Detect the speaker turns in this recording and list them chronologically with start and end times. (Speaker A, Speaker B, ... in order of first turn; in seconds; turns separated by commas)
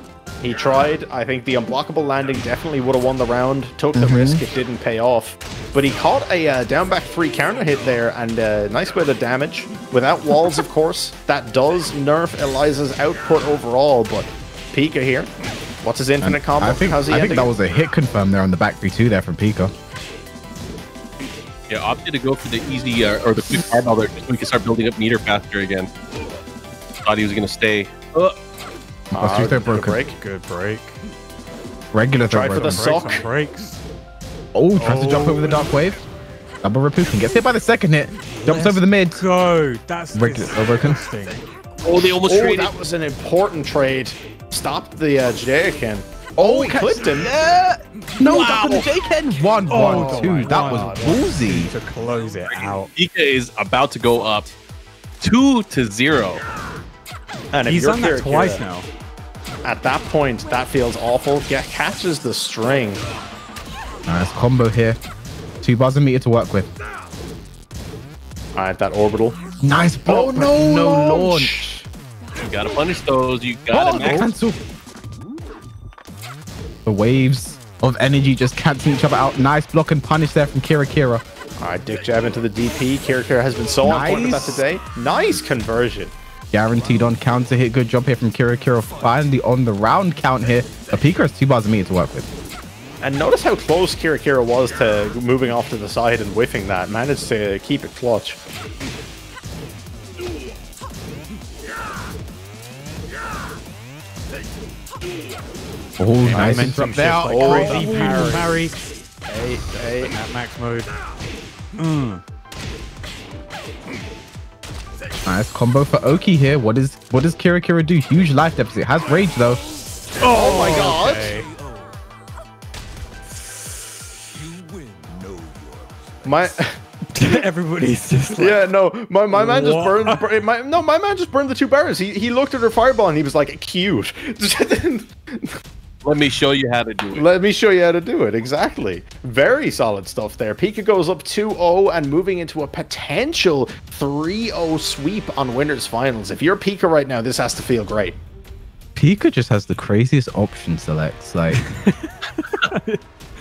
Speaker A: 0.4-15.3, Speaker B: 3.9-4.4, Speaker A: 15.8-17.5, Speaker B: 16.2-19.7, Speaker C: 21.7-25.9, Speaker C: 27.0-28.4, Speaker B: 29.1-30.0, Speaker A: 29.1-30.2, Speaker D: 30.0-31.0, Speaker B: 31.9-32.9, Speaker A: 32.3-33.2, Speaker D: 32.5-33.8, Speaker B: 34.5-36.0, Speaker D: 34.8-35.7, Speaker B: 36.6-39.2, Speaker D: 38.3-41.5, Speaker B: 40.1-41.0, Speaker C: 41.8-42.7, Speaker A: 42.2-47.3, Speaker B: 46.4-51.7, Speaker C: 48.3-48.8, Speaker D: 49.7-52.9, Speaker A: 49.8-51.1, Speaker C: 52.5-54.5, Speaker C: 55.2-56.4, Speaker A: 57.5-58.6, Speaker D: 57.6-58.9, Speaker A: 59.6-63.0, Speaker B: 64.1-65.0, Speaker B: 65.6-66.7, Speaker A: 68.5-69.4, Speaker B: 69.6-71.7, Speaker A: 70.0-71.8, Speaker C: 72.4-74.3, Speaker B: 73.7-74.6, Speaker A: 74.0-74.3, Speaker B: 76.8-81.2, Speaker A: 81.6-86.1, Speaker B: 83.8-84.6, Speaker B: 86.5-92.3, Speaker A: 93.0-98.4, Speaker B: 106.0-108.5, Speaker D: 106.2-108.8, Speaker A: 106.3-108.6, Speaker A: 109.3-110.2, Speaker D: 109.7-110.9, Speaker D: 111.8-112.2, Speaker B: 115.2-119.6, Speaker D: 120.2-121.5, Speaker A: 120.3-121.4, Speaker A: 126.2-126.8, Speaker D: 127.1-128.6, Speaker A: 128.4-135.5, Speaker D: 129.3-130.2, Speaker C: 136.0-137.2, Speaker A: 137.1-148.2, Speaker B: 148.9-151.6, Speaker D: 151.5-153.0